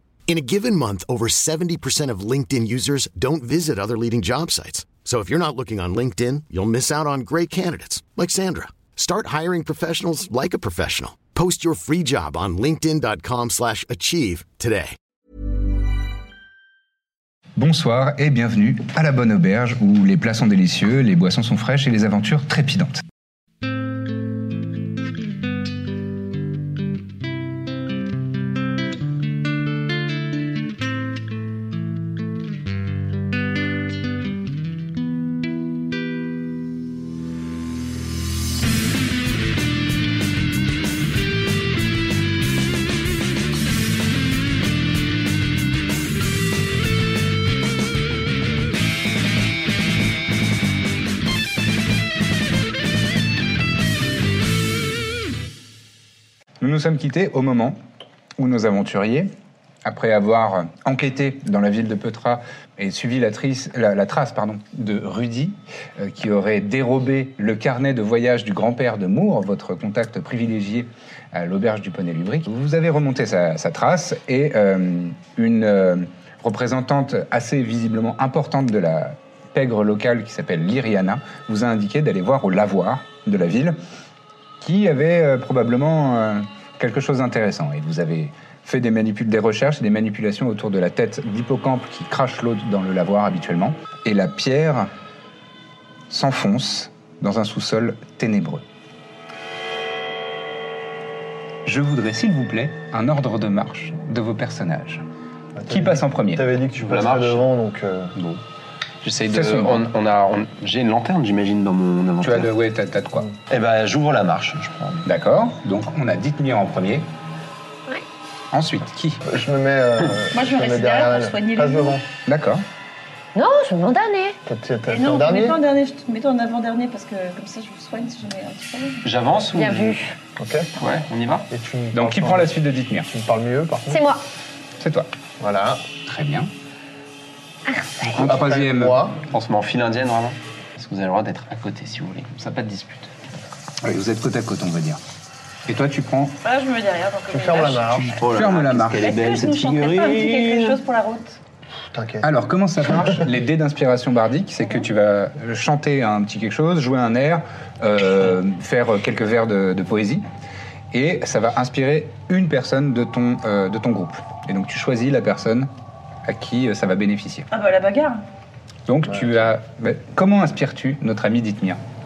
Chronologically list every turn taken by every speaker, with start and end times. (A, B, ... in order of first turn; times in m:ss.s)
0:00.3-0:15.0 A
0:17.6-0:23.0 B
0:56.6-0:57.8 B
0:58.4-0:59.3 B
0:59.8-1:23.8 B
1:24.6-1:34.9 B
1:36.1-1:38.6 B
1:41.6-1:45.0 B
1:45.6-1:48.1 C
1:45.7-1:46.4 B
1:46.8-1:47.4 D
1:49.0-1:52.5 D
1:49.3-1:49.8 B
1:52.2-1:53.3 B
1:53.5-1:55.0 D
1:55.0-1:57.1 B
1:58.5-1:59.2 B
1:59.2-2:02.0 C
2:00.3-2:02.0 E
2:02.2-2:02.6 B
2:03.3-2:04.4 F
2:04.4-2:05.6 C
2:04.9-2:09.0 E
2:09.0-2:10.0 D
2:09.6-2:10.1 F
2:10.4-2:10.7 C
2:10.8-2:11.5 D
2:11.5-2:14.0 C
2:11.9-2:13.1 B
2:13.9-2:14.2 F
2:14.8-2:15.1 B
2:15.4-2:15.8 C
2:16.0-2:16.5 B
2:17.6-2:18.3 F
2:18.1-2:19.0 B
2:18.1-2:19.2 C
2:19.3-2:23.1 D
2:23.8-2:25.0 B
2:25.7-2:26.3 B
2:26.4-2:28.0 E
2:27.3-2:28.1 C
2:27.9-2:29.1 B
2:28.1-2:30.8 D
2:28.9-2:31.4 E
2:31.9-2:32.3 C
2:32.2-2:40.2 B
2:40.9-2:45.7 B
2:46.2-2:47.5 B
2:47.5-2:48.2 E
2:48.9-2:51.8 B